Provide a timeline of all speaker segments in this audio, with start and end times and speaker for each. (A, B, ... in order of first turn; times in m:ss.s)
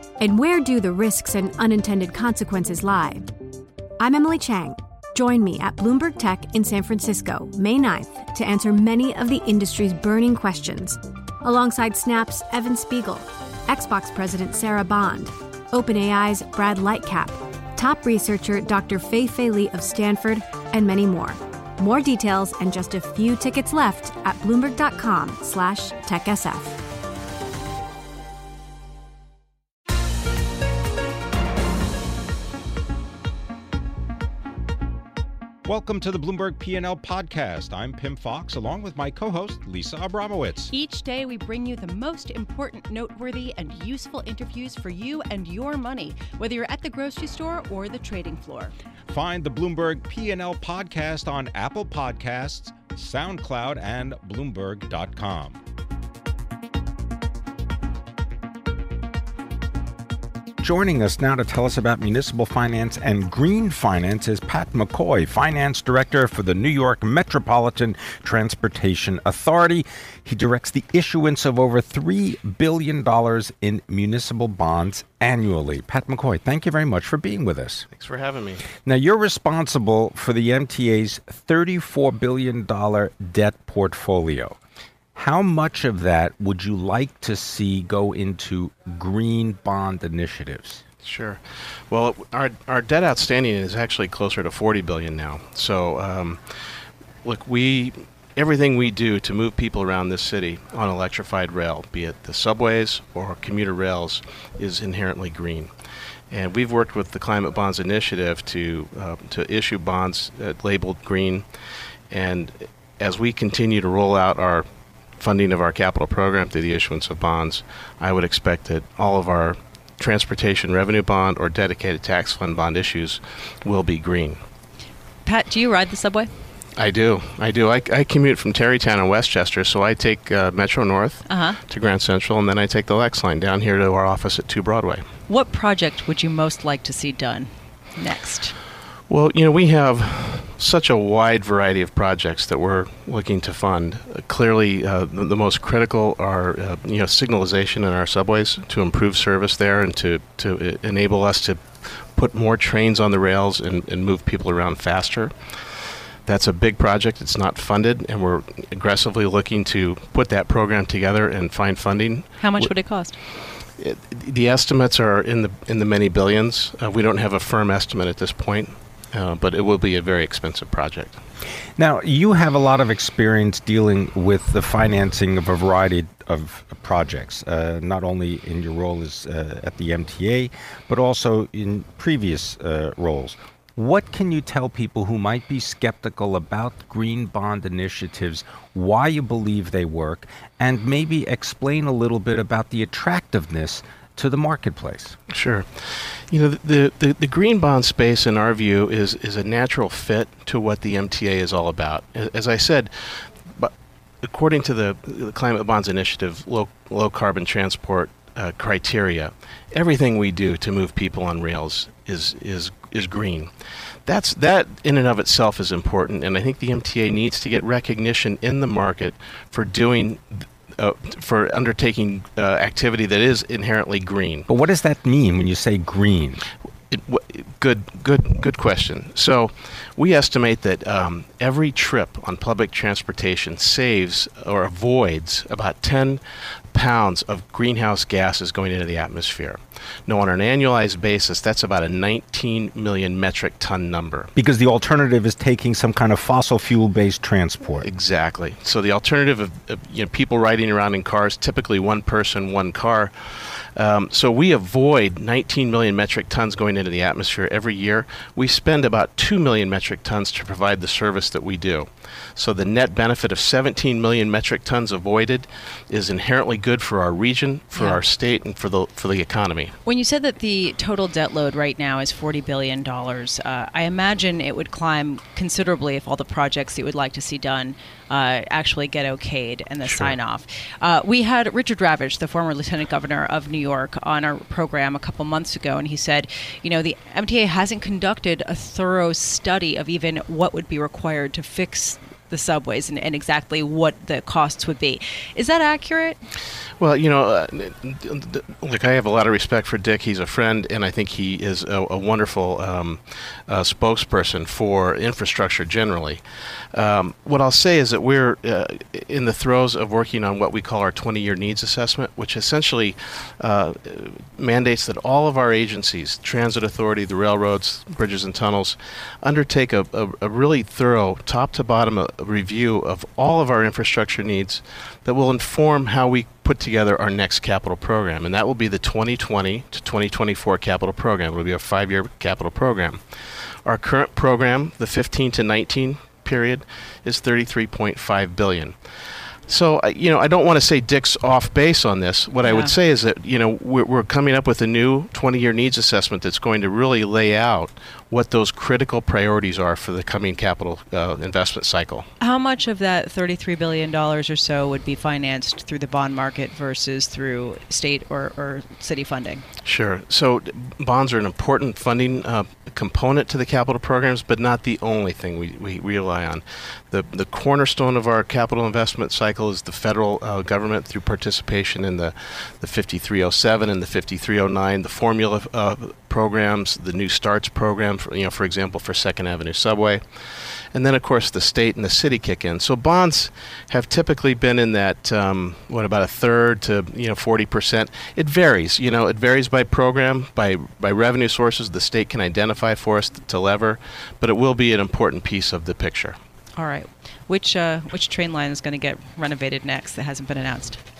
0:00.2-0:03.3 A
0:04.0-0:26.8 A
0:35.6-0:40.7 B
0:40.7-0:48.7 C
0:49.1-0:55.6 B
1:00.6-1:17.9 B
1:17.9-1:18.6 D
1:18.8-1:24.6 B
1:25.1-1:30.8 B
1:31.0-1:36.5 D
1:37.2-1:45.7 D
1:46.3-1:51.5 D
1:52.1-2:04.4 D
2:05.2-2:06.3 C
2:06.8-2:15.0 D
2:11.2-2:11.6 C
2:15.3-2:18.6 C
2:19.1-2:42.7 D
2:42.4-2:43.1 C
2:43.7-2:51.2 D
2:51.8-3:15.2 B
3:15.3-3:33.5 D
3:34.0-3:44.5 D
3:44.5-3:46.4 B
3:46.9-4:04.3 D
4:04.4-4:07.9 B
4:07.8-4:29.8 D
4:27.7-4:28.0 C
4:29.8-4:56.2 C
4:39.8-4:40.2 D
4:56.8-5:52.1 D
5:42.4-5:42.8 C
5:52.2-5:59.4 C
5:59.6-6:36.2 D
6:36.5-6:40.8 C